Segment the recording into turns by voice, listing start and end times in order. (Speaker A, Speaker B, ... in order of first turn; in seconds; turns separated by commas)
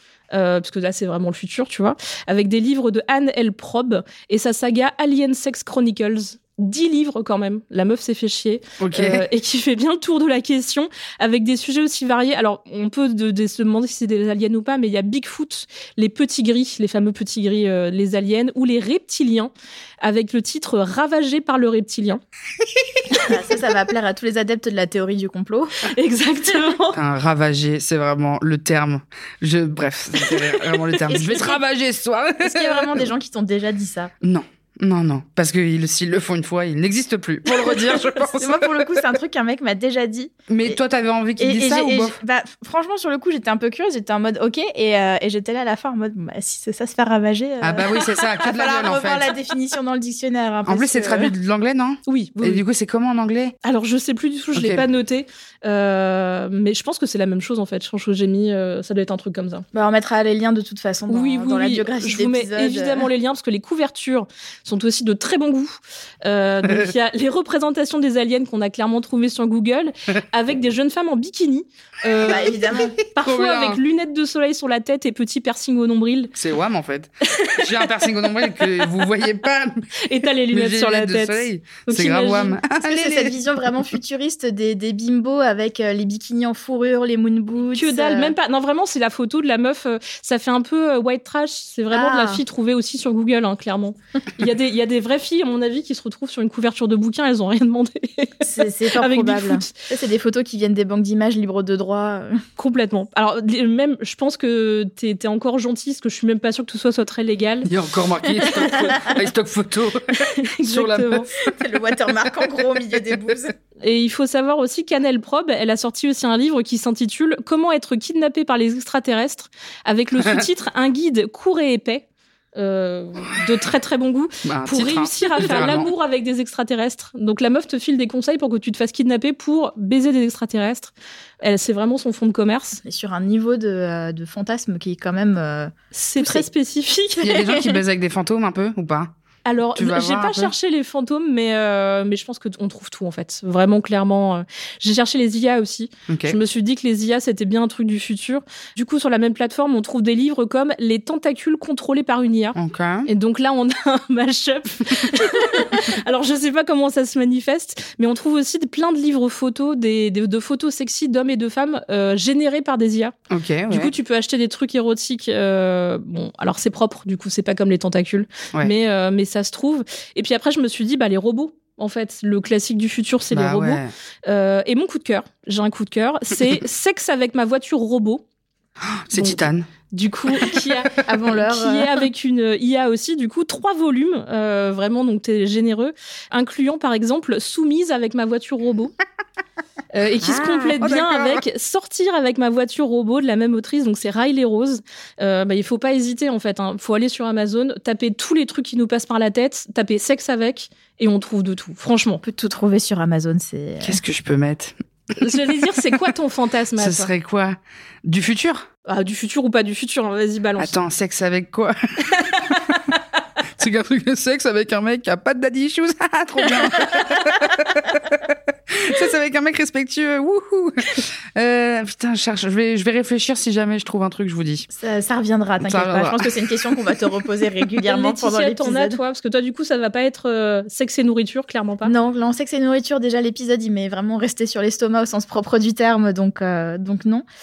Speaker A: 0.3-19.5, Speaker B: 8.8-9.2, Speaker A: 20.0-22.2, Speaker C: 23.2-25.8, Speaker A: 25.9-27.0, Speaker B: 26.9-33.1, Speaker A: 30.3-31.5, Speaker C: 32.4-34.1, Speaker B: 34.2-38.8, Speaker C: 38.3-40.8, Speaker B: 40.5-42.2, Speaker C: 41.4-51.3, Speaker B: 47.6-49.3, Speaker B: 50.7-53.5, Speaker A: 52.1-52.6, Speaker A: 53.6-59.6, Speaker B: 54.5-54.8, Speaker C: 59.7-63.1, Speaker A: 61.1-76.3, Speaker B: 66.6-66.9, Speaker C: 72.2-73.0, Speaker B: 73.2-73.8, Speaker B: 76.3-79.8, Speaker A: 77.4-77.9, Speaker A: 80.0-82.6, Speaker B: 80.5-83.4, Speaker C: 82.8-88.3, Speaker A: 87.7-98.4, Speaker C: 91.9-92.4, Speaker C: 98.4-102.4, Speaker A: 99.0-99.8, Speaker A: 102.6-107.7, Speaker B: 107.7-111.4, Speaker C: 108.5-108.8, Speaker A: 110.4-111.3, Speaker C: 111.5-113.5, Speaker A: 113.8-132.8, Speaker B: 124.5-125.9, Speaker C: 132.8-136.5, Speaker A: 135.9-137.3, Speaker B: 137.2-139.1, Speaker C: 137.2-137.6, Speaker A: 139.4-163.1, Speaker B: 139.8-140.5, Speaker B: 146.1-146.4, Speaker B: 152.6-153.1, Speaker B: 163.3-163.9, Speaker A: 163.7-178.2, Speaker B: 173.3-173.9, Speaker B: 178.8-179.7, Speaker A: 179.1-188.9, Speaker C: 181.0-181.9, Speaker A: 189.9-202.2, Speaker B: 190.2-191.4, Speaker C: 202.2-204.0, Speaker B: 203.8-204.8, Speaker A: 205.2-207.1, Speaker B: 206.8-208.7, Speaker A: 208.9-210.7, Speaker B: 210.6-212.5, Speaker A: 212.2-212.8, Speaker B: 213.6-224.7, Speaker C: 224.7-229.0, Speaker B: 225.6-226.5, Speaker A: 227.9-231.9, Speaker C: 231.8-237.2